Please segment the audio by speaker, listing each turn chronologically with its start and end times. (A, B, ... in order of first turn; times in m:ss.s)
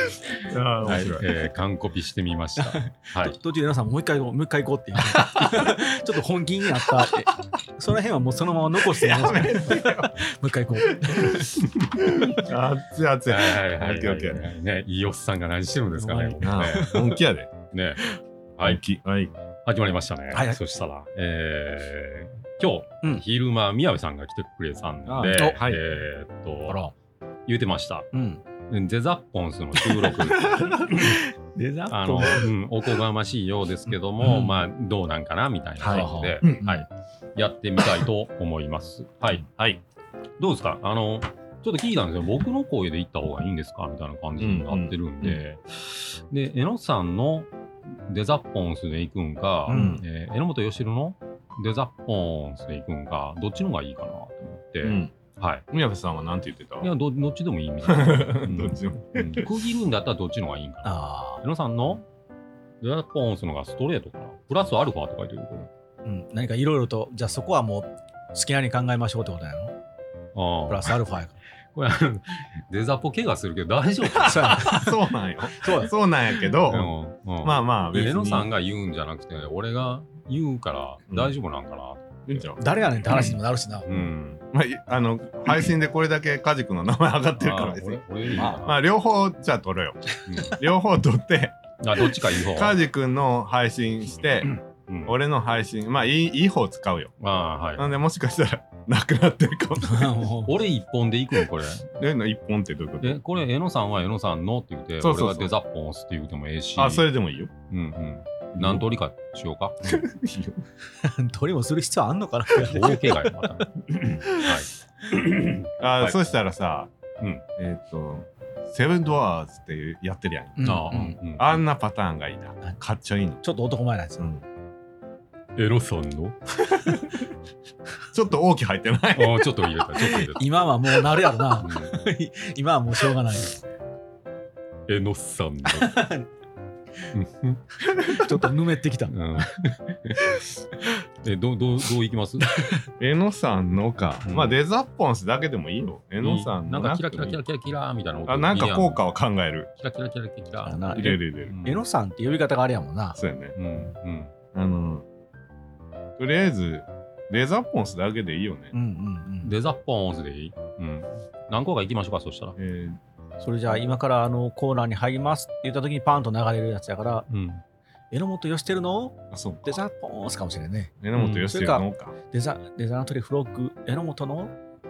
0:00.5-0:01.3 A
0:00.8-0:03.4 B
0:02.6-0:11.6 C
0:08.9-0:10.2 A
0:10.9-0:14.4 A
0:13.3-0:17.0 B
0:16.0-0:17.2 C
0:16.4-0:17.5 A
0:17.7-0:18.0 B
0:18.6-0:18.8 B
0:18.6-0:19.3 A
0:19.6-0:26.8 B
0:20.3-0:20.6 C
0:25.1-0:25.8 A
0:26.7-0:26.9 C
0:27.5-0:28.1 B
0:28.1-0:28.4 C
0:28.7-0:31.2 B
0:29.9-0:32.5 C
0:31.9-0:39.4 B
0:34.2-0:34.6 C
0:35.8-0:36.7 A
0:35.9-0:36.8 C
0:39.5-0:39.8 A
0:40.4-0:55.6 B
0:44.4-0:45.4 A
0:49.7-0:50.0 C
0:49.7-0:50.0 A
0:54.8-0:55.1 A
0:55.7-0:56.9 A
0:56.8-1:02.0 B
0:57.8-0:59.5 A
1:00.8-1:01.4 C
1:02.8-1:05.7 B
1:06.0-1:09.7 C
1:10.4-1:11.0 B
1:10.7-1:11.4 C
1:11.7-1:14.6 B
1:14.2-1:15.9 C
1:14.2-1:18.5 A
1:16.7-1:22.6 B
1:21.1-1:21.4 A
1:22.3-1:23.4 A
1:22.6-1:23.9 C
1:23.1-1:24.4 B
1:24.5-1:31.6 A
1:27.4-1:28.8 B
1:28.4-1:28.6 C
1:30.3-1:30.6 B
1:31.8-1:32.8 B
1:32.2-1:34.5 A
1:34.9-1:35.2 B
1:35.1-1:37.1 A
1:37.2-1:37.9 B
1:37.8-1:40.1 A
1:39.8-1:40.5 C
1:40.4-1:41.9 B
1:42.0-1:43.2 A
1:43.0-1:47.1 B
1:45.0-1:45.5 A
1:46.8-1:47.5 A
1:47.7-1:50.0 B
1:48.5-1:48.9 A
1:49.8-1:50.6 A
1:51.0-1:53.6 C
1:52.6-1:56.2 B
1:55.8-1:56.9 A
1:57.6-2:03.4 A
2:00.6-2:01.2 C
2:00.6-2:01.6 B
2:03.4-2:04.3 C
2:04.2-2:04.4 A
2:05.6-2:06.4 B
2:08.1-2:09.5 A
2:09.1-2:10.6 B
2:10.0-2:13.6 C
2:11.6-2:12.0 B
2:14.9-2:16.0 B
2:15.7-2:16.3 C
2:17.1-2:17.6 B
2:18.0-2:19.2 C
2:19.1-2:20.4 B
2:21.2-2:22.7 B
2:22.5-2:22.8 C
2:23.0-2:27.4 A
2:24.3-2:24.6 B
2:26.2-2:29.0 B
2:28.3-2:29.7 A
2:29.8-2:31.8 B
2:30.6-2:33.2 C
2:31.0-2:31.6 A
2:33.2-2:33.6 A
2:33.6-2:34.3 B
2:34.5-2:35.0 A
2:36.2-2:38.7 A
2:38.7-2:39.6 C
2:39.4-2:42.6 B
2:42.6-2:43.0 A
2:43.4-2:47.3 C
2:47.3-2:47.6 B
2:48.1-2:54.6 C
2:49.3-2:49.8 A
2:51.0-2:52.2 A
2:51.2-2:51.5 B